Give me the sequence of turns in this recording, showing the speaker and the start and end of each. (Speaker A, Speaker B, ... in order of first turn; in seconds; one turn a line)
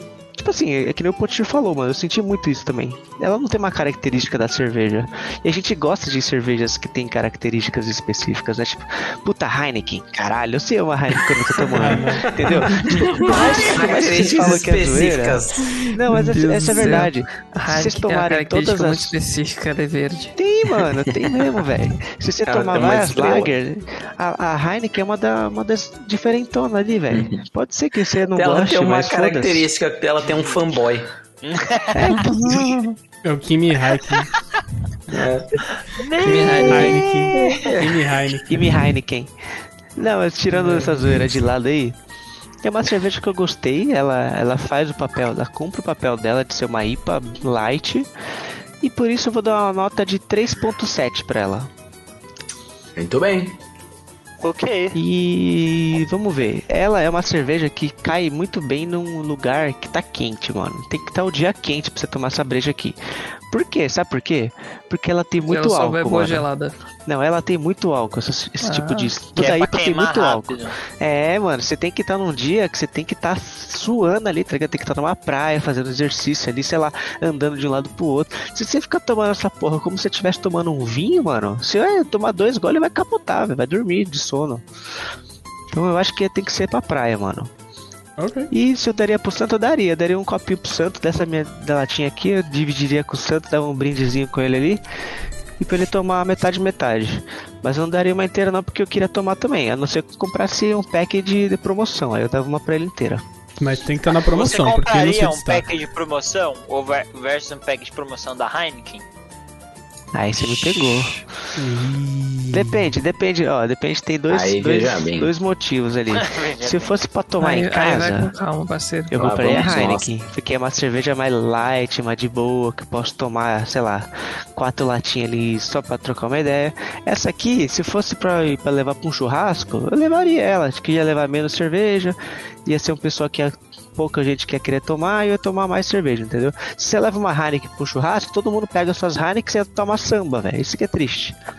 Speaker A: 0.4-19.1
Speaker B: 11.7-12.5
Speaker C: 11.8-15.8
Speaker D: 12.8-13.4
Speaker D: 15.7-20.4
Speaker A: 20.4-29.7
Speaker C: 22.4-23.6
Speaker C: 27.1-27.4
Speaker C: 28.3-31.1
Speaker E: 31.4-32.2
Speaker A: 31.9-32.7
Speaker D: 32.1-32.9
Speaker B: 33.2-34.3
Speaker C: 35.1-35.5
Speaker E: 36.0-37.6
Speaker D: 36.2-37.0
Speaker B: 36.6-38.9
Speaker C: 37.4-37.9
Speaker A: 38.5-39.3
Speaker A: 39.9-42.0
Speaker B: 40.5-41.4
Speaker A: 42.6-48.1
Speaker A: 48.8-51.7
Speaker C: 53.0-53.6
Speaker E: 54.4-55.0
Speaker A: 54.9-63.0
Speaker A: 63.5-66.4
Speaker D: 65.5-66.7
Speaker A: 67.1-84.6
Speaker D: 68.6-69.1
Speaker E: 69.3-70.8
Speaker A: 85.7-87.5
Speaker B: 88.2-88.5
Speaker A: 88.5-94.8
Speaker A: 95.6-103.2
Speaker B: 103.6-105.7
Speaker E: 104.3-109.0
Speaker A: 110.1-111.3
Speaker D: 110.4-111.2
Speaker B: 111.6-112.9
Speaker A: 112.5-118.3
Speaker C: 114.3-115.3
Speaker E: 116.1-117.0
Speaker D: 117.4-119.2
Speaker A: 119.1-141.4
Speaker C: 119.2-120.1